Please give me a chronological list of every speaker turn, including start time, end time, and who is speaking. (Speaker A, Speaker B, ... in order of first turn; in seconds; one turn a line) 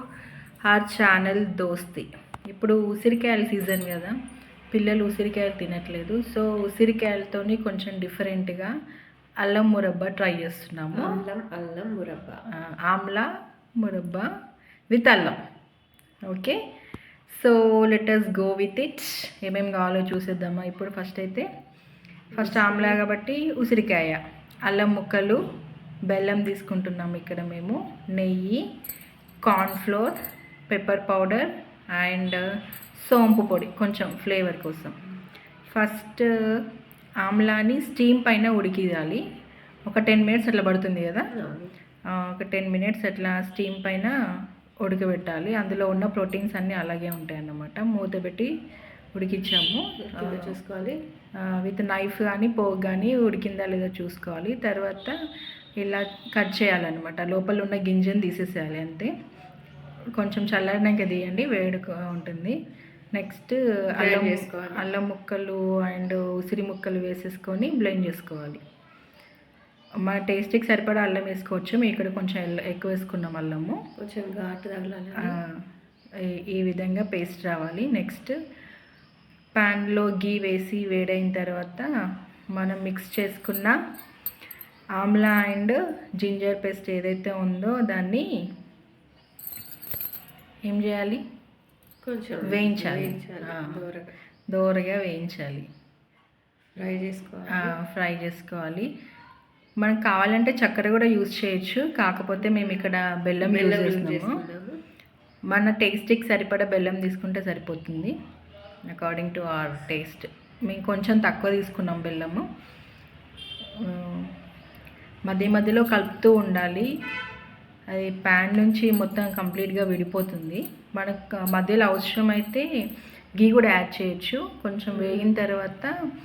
Speaker A: 0.7-4.1
Speaker A: 4.7-8.7
Speaker A: 9.4-11.2
Speaker B: 10.9-12.4
Speaker A: 12.5-13.2
Speaker A: 13.8-14.3
Speaker A: 14.9-15.3
Speaker A: 16.3-16.6
Speaker A: 17.3-21.4
Speaker B: 22.3-23.0
Speaker A: 22.4-25.4
Speaker A: 26.1-28.6
Speaker A: 29.4-30.1
Speaker A: 30.7-32.4
Speaker A: 33.0-34.9
Speaker A: 35.7-36.2
Speaker A: 37.2-39.2
Speaker A: 39.9-41.3
Speaker B: 41.3-41.7
Speaker A: 42.1-44.1
Speaker A: 44.8-48.5
Speaker A: 49.1-50.5
Speaker B: 50.0-50.9
Speaker A: 51.4-55.1
Speaker A: 55.8-59.1
Speaker A: 60.1-62.5
Speaker A: 63.1-68.6
Speaker B: 64.0-64.9
Speaker A: 70.0-73.8
Speaker B: 74.0-75.4
Speaker A: 75.2-75.5
Speaker A: 76.2-78.3
Speaker A: 79.5-81.9
Speaker A: 82.5-83.8
Speaker A: 85.0-88.2
Speaker A: 90.7-91.2
Speaker B: 92.0-94.1
Speaker A: 92.4-93.8
Speaker A: 94.5-95.7
Speaker B: 96.8-97.7
Speaker A: 97.5-98.9
Speaker A: 99.8-104.4
Speaker B: 103.4-104.8
Speaker A: 105.5-108.1
Speaker A: 108.9-112.4
Speaker A: 113.8-114.3
Speaker A: 115.3-116.9
Speaker A: 117.9-122.6
Speaker A: 123.4-125.9
Speaker B: 124.9-125.3